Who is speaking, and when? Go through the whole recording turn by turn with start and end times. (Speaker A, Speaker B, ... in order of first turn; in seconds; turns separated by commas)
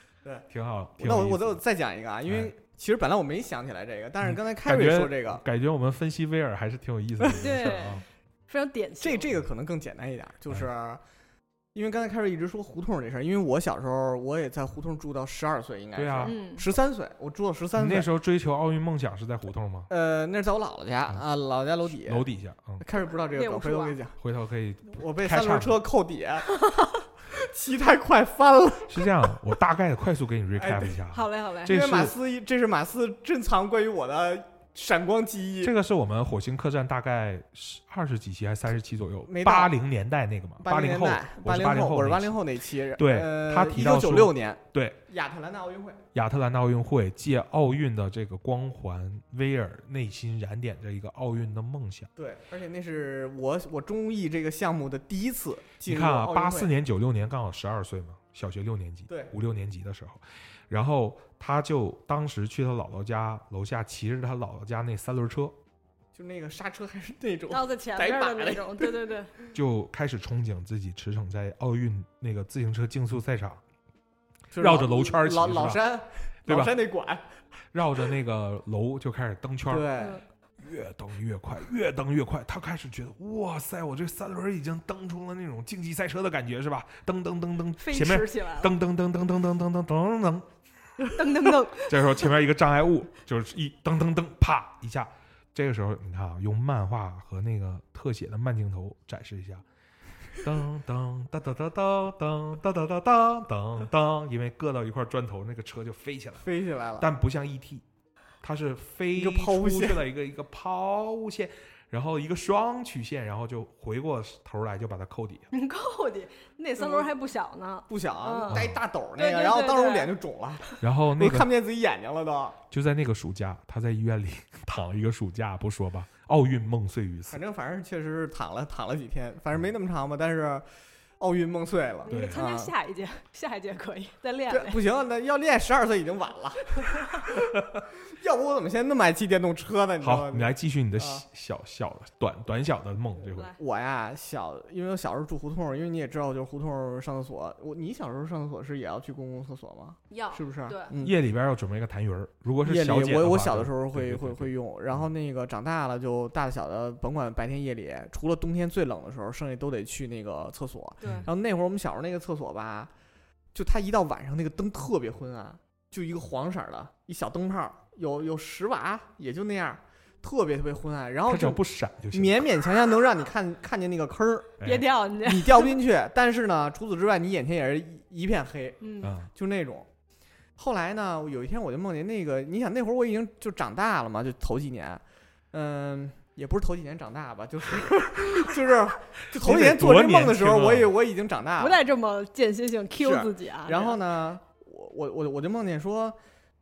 Speaker A: 0.5-1.6, Speaker B: 1.0-5.4, Speaker A: 2.3-2.5, Speaker A: 4.2-8.1, Speaker B: 7.2-7.8, Speaker C: 7.4-9.3, Speaker B: 9.0-11.0, Speaker B: 11.7-18.1, Speaker A: 16.0-16.4, Speaker C: 16.2-16.7, Speaker A: 17.8-19.9, Speaker B: 19.9-22.3, Speaker A: 21.9-22.8, Speaker B: 22.8-24.1, Speaker C: 22.9-24.0, Speaker A: 24.2-25.8, Speaker B: 24.9-26.5, Speaker B: 27.3-29.2, Speaker A: 28.9-32.1, Speaker B: 30.6-31.0, Speaker C: 31.1-31.8, Speaker B: 31.7-35.7, Speaker A: 35.6-45.0, Speaker B: 39.3-39.7, Speaker B: 40.6-46.0, Speaker A: 46.1-52.1, Speaker B: 52.2-56.7, Speaker A: 55.8-65.6, Speaker B: 66.1-69.0, Speaker C: 67.5-69.4, Speaker A: 69.5-73.6, Speaker B: 74.5-77.3, Speaker A: 74.6-75.8, Speaker A: 76.5-76.8, Speaker A: 77.7-79.9, Speaker B: 79.7-80.2, Speaker A: 80.6-90.5, Speaker C: 87.8-88.7, Speaker C: 91.1-92.0, Speaker A: 91.8-99.6, Speaker A: 100.4-106.5, Speaker B: 106.4-107.1, Speaker A: 107.0-107.8, Speaker A: 108.4-115.5, Speaker B: 109.2-110.0, Speaker C: 115.5-120.1, Speaker B: 116.8-117.1, Speaker B: 117.9-122.6, Speaker A: 118.5-118.8, Speaker A: 120.8-121.5, Speaker A: 122.7-127.4, Speaker B: 127.3-130.7, Speaker B: 131.2-132.7, Speaker C: 132.1-134.8, Speaker A: 132.1-132.4, Speaker B: 134.5-141.2, Speaker A: 140.0-143.5, Speaker B: 143.5-151.2, Speaker C: 150.1-150.9, Speaker A: 151.0-155.1, Speaker B: 152.6-162.9, Speaker C: 161.0-161.3, Speaker A: 161.0-161.3, Speaker B: 163.5-174.6, Speaker A: 171.3-172.5, Speaker A: 174.6-174.9, Speaker C: 174.6-175.8, Speaker B: 175.2-179.9, Speaker C: 178.8-179.1, Speaker A: 179.0-179.3, Speaker B: 180.6-191.8, Speaker A: 189.3-190.9, Speaker C: 191.6-194.0, Speaker B: 193.0-196.2